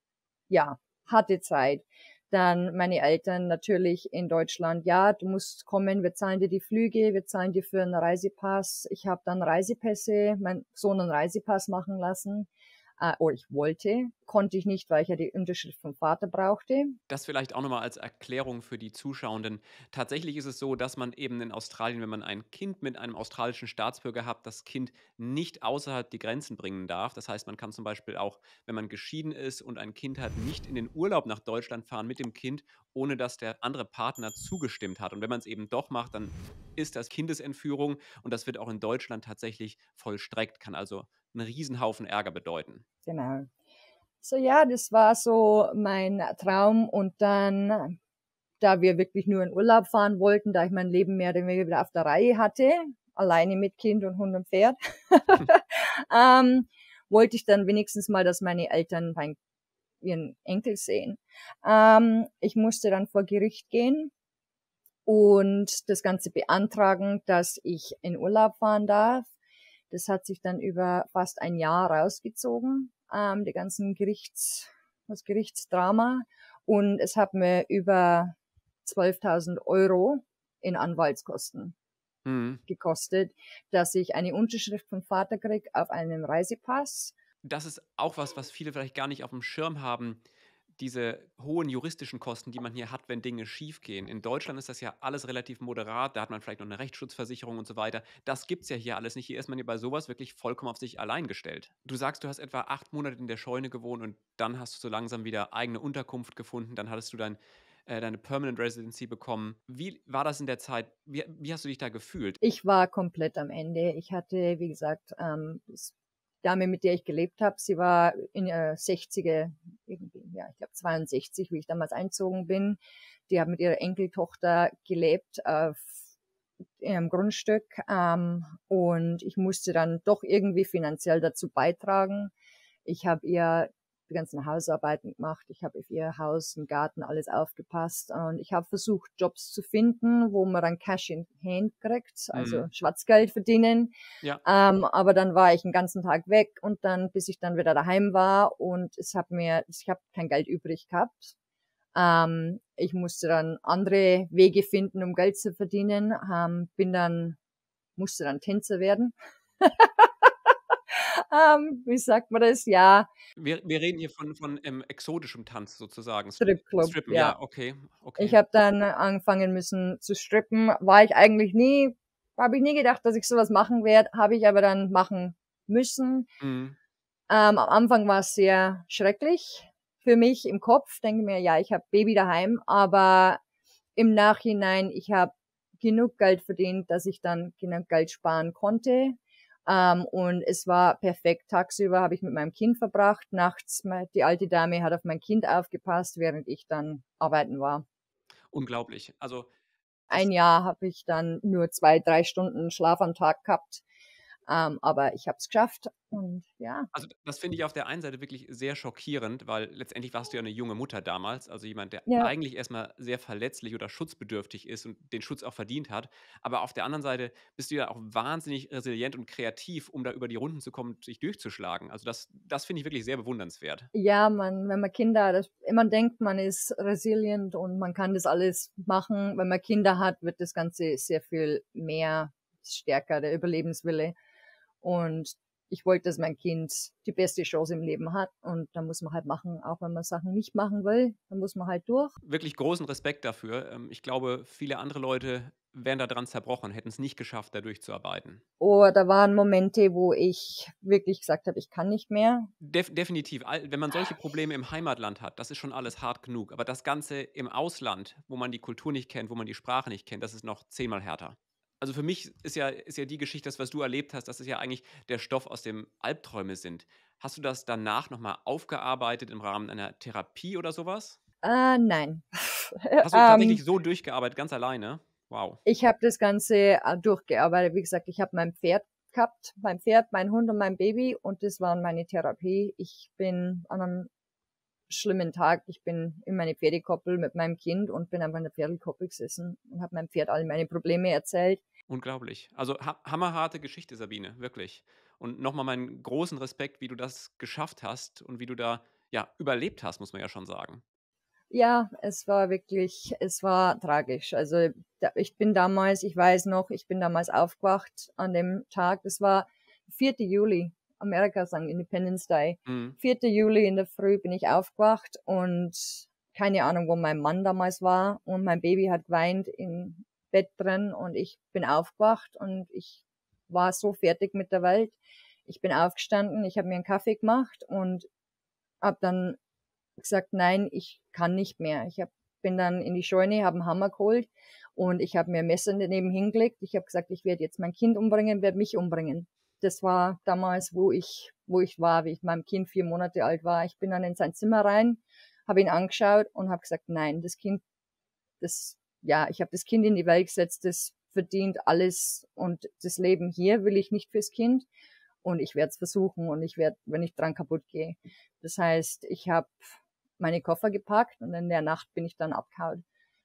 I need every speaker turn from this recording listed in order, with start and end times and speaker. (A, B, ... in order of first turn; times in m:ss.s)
0:00.5-0:17.0 A
0:17.1-0:42.8 B
0:43.1-0:43.5 A
0:44.2-0:48.0 A
0:48.6-0:59.4 A
1:00.0-1:04.1 A
1:05.1-1:09.3 A
1:09.9-1:21.7 A
1:22.3-1:22.6 B
1:22.7-1:27.2 A
1:27.4-1:30.2 B
1:30.8-1:52.4 B
1:52.4-2:06.0 A
2:06.8-2:12.3 A
2:12.8-2:23.9 A
2:22.3-2:22.7 B
2:24.4-2:31.3 A
2:31.9-2:37.4 A
2:38.0-2:40.3 A
2:40.9-2:43.1 A
2:43.4-2:48.4 B
2:46.4-2:47.4 A
2:48.2-2:56.3 A
2:56.4-2:56.8 B
2:57.3-3:03.4 A
3:04.0-3:17.8 A
3:18.5-3:19.5 B
3:20.1-3:23.8 A
3:24.5-3:26.9 A
3:26.9-3:43.9 B
3:32.1-3:32.3 A
3:43.9-3:54.1 A
3:54.8-4:02.2 A
4:02.2-4:08.4 B
4:08.6-4:12.5 A
4:12.6-4:31.2 B
4:31.4-4:33.6 A
4:33.0-4:35.6 B
4:35.6-4:44.1 A
4:44.9-4:51.6 A
4:51.9-5:00.8 B
5:01.5-5:28.1 A
5:12.7-5:13.0 B
5:28.8-5:29.4 A
5:30.0-5:47.6 A
5:48.4-5:54.7 A
5:55.2-5:59.6 A
6:00.2-6:02.8 A